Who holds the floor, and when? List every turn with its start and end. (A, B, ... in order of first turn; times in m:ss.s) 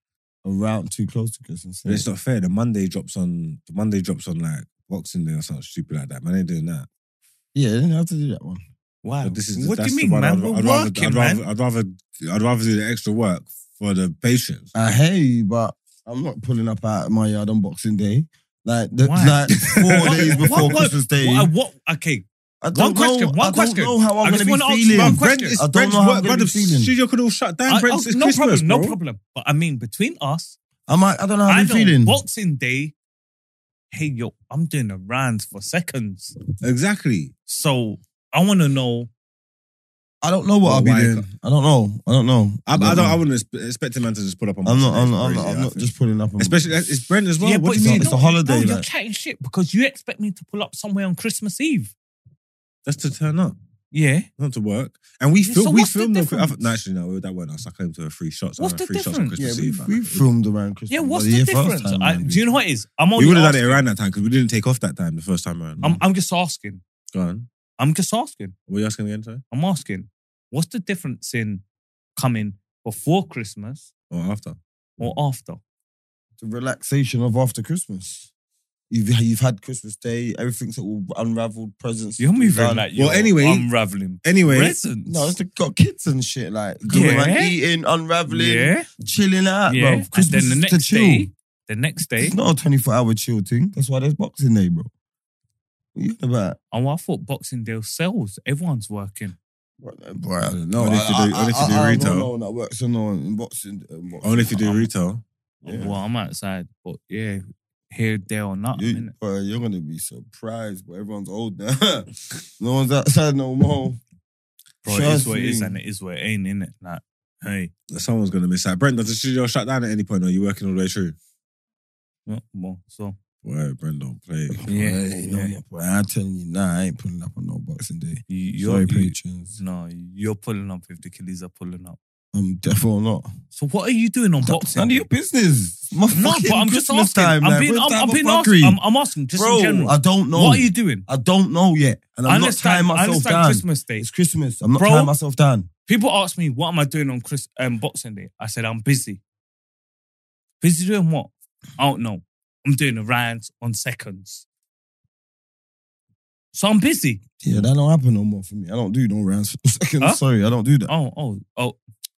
0:00.4-0:02.0 A
0:01.8-0:06.9 B
0:07.5-0:08.6 A
0:09.0-0:11.4 C
0:09.2-0:14.7 B
0:14.7-0:21.5 A
0:19.0-0:25.6 C
0:19.6-0:20.8 B
0:22.6-0:26.9 A
0:24.9-0:29.0 B
0:27.7-0:30.6 C
0:30.9-0:32.2 A
0:31.5-0:32.9 C
0:33.9-0:36.4 C
0:36.6-0:37.3 B
0:37.5-0:39.1 C
0:40.2-0:43.2 A
0:40.6-0:41.2 B
0:42.7-0:45.9 B
0:44.6-0:46.9 A
0:46.4-0:48.1 B
0:47.4-0:51.9 C
0:47.8-0:48.9 A
0:52.8-0:53.5 B
0:53.9-0:54.3 C
0:54.4-1:00.2 B
0:55.4-0:56.6 C
0:58.6-0:59.4 C
0:59.4-1:02.5 A
1:00.9-1:03.8 C
1:03.2-1:06.0 B
1:05.8-1:06.8 C
1:07.1-1:07.5 B
1:07.8-1:08.5 C
1:08.7-1:09.4 B
1:09.5-1:11.6 C
1:12.2-1:13.9 C
1:14.1-1:14.6 B
1:15.0-1:15.6 C
1:16.4-1:18.3 A
1:18.9-1:22.8 A
1:22.2-1:25.3 C
1:22.9-1:23.7 B
1:24.2-1:24.8 B
1:25.0-1:31.3 A
1:26.9-1:27.6 C
1:28.3-1:28.9 C
1:29.7-1:32.4 C
1:32.2-1:34.9 A
1:35.9-1:36.6 A
1:36.7-1:39.4 C
1:39.8-1:44.9 A
1:40.8-1:42.3 B
1:44.2-1:45.2 B
1:45.6-1:49.1 C
1:45.6-1:45.9 A
1:48.7-1:52.1 A
1:52.6-1:54.0 A
1:54.8-1:57.7 C
1:54.8-1:55.7 A
1:57.9-2:01.2 B
2:02.3-2:03.2 C
2:03.4-2:04.6 B
2:04.6-2:09.6 A
2:04.7-2:05.5 C
2:08.3-2:12.0 C
2:12.3-2:13.3 A
2:13.5-2:15.0 C
2:14.4-2:18.8 A
2:16.1-2:21.0 C
2:19.3-2:25.7 A
2:22.2-2:24.1 C
2:24.8-2:25.1 C
2:25.9-2:29.2 C
2:30.6-2:34.4 C
2:36.5-2:37.2 C
2:37.4-2:40.9 A
2:40.9-2:41.8 C